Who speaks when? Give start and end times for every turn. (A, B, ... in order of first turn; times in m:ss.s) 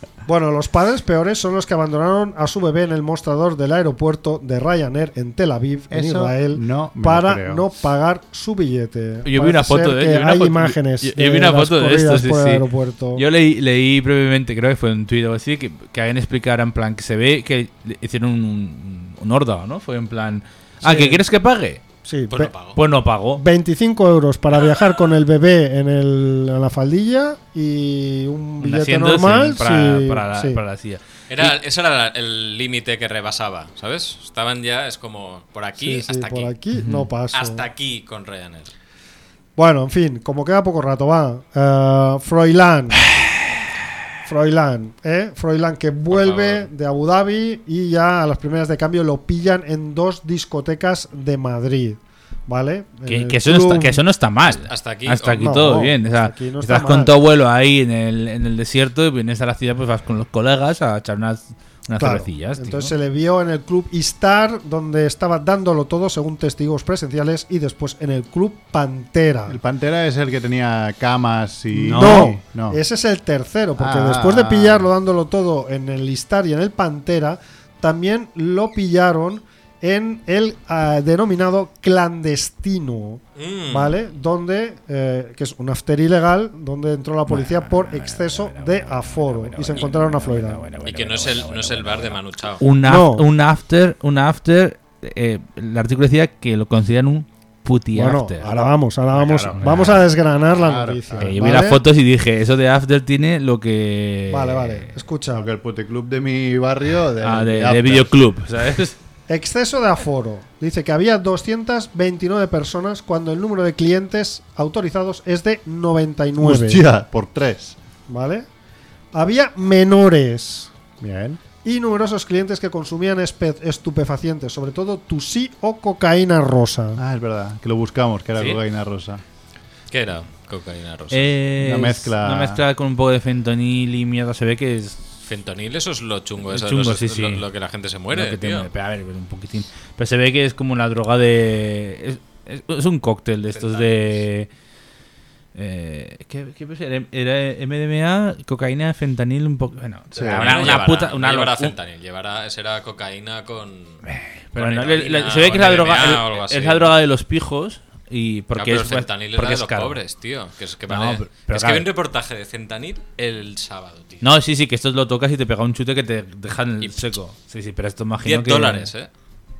0:00.2-0:13.2 A
0:05.9-0:07.6 B
0:09.2-0:12.6 C
0:13.1-0:21.8 C
0:20.8-0:21.2 A
0:22.0-0:22.5 A
0:22.3-0:22.8 D
0:22.8-0:23.4 C
0:23.3-0:30.6 A
0:28.6-0:31.5 C
0:31.3-0:36.5 D
0:35.8-0:37.6 A
0:36.7-0:37.1 C
0:37.3-0:38.7 D
0:39.6-0:43.1 A
0:44.2-0:54.0 A
0:46.1-0:46.7 D
0:53.1-1:02.9 C
0:54.4-0:55.6 D
0:55.4-0:57.1 A
1:02.0-1:09.6 A
1:09.5-1:12.8 B
1:11.7-1:30.7 A
1:12.0-1:12.2 C
1:13.8-1:14.9 B
1:23.4-1:24.0 D
1:27.3-1:38.7 C
1:30.8-1:32.6 D
1:32.8-1:33.3 A
1:37.9-1:41.8 A
1:39.2-1:39.9 B
1:39.3-1:40.0 C
1:40.5-1:41.7 B
1:41.2-1:44.9 C
1:44.3-1:45.5 A
1:45.3-1:48.1 B
1:47.2-1:49.0 C
1:49.3-1:56.8 A
1:56.4-1:57.8 B
1:58.1-1:58.5 A
1:59.1-2:00.7 A
2:01.0-2:01.4 B
2:01.6-2:07.0 A
2:07.0-2:09.2 B
2:08.4-2:08.6 D
2:09.9-2:11.3 D
2:11.1-2:15.0 C
2:11.6-2:12.6 B
2:15.2-2:18.7 D
2:16.5-2:17.4 C
2:18.1-2:24.5 C
2:23.5-2:24.2 D
2:25.5-2:31.7 C
2:30.1-2:30.7 B
2:30.2-2:34.0 D
2:34.0-2:40.0 C
2:34.6-2:37.0 D
2:38.6-2:44.3 D
2:40.9-2:41.8 C
2:44.2-2:48.9 C
2:48.2-2:49.1 D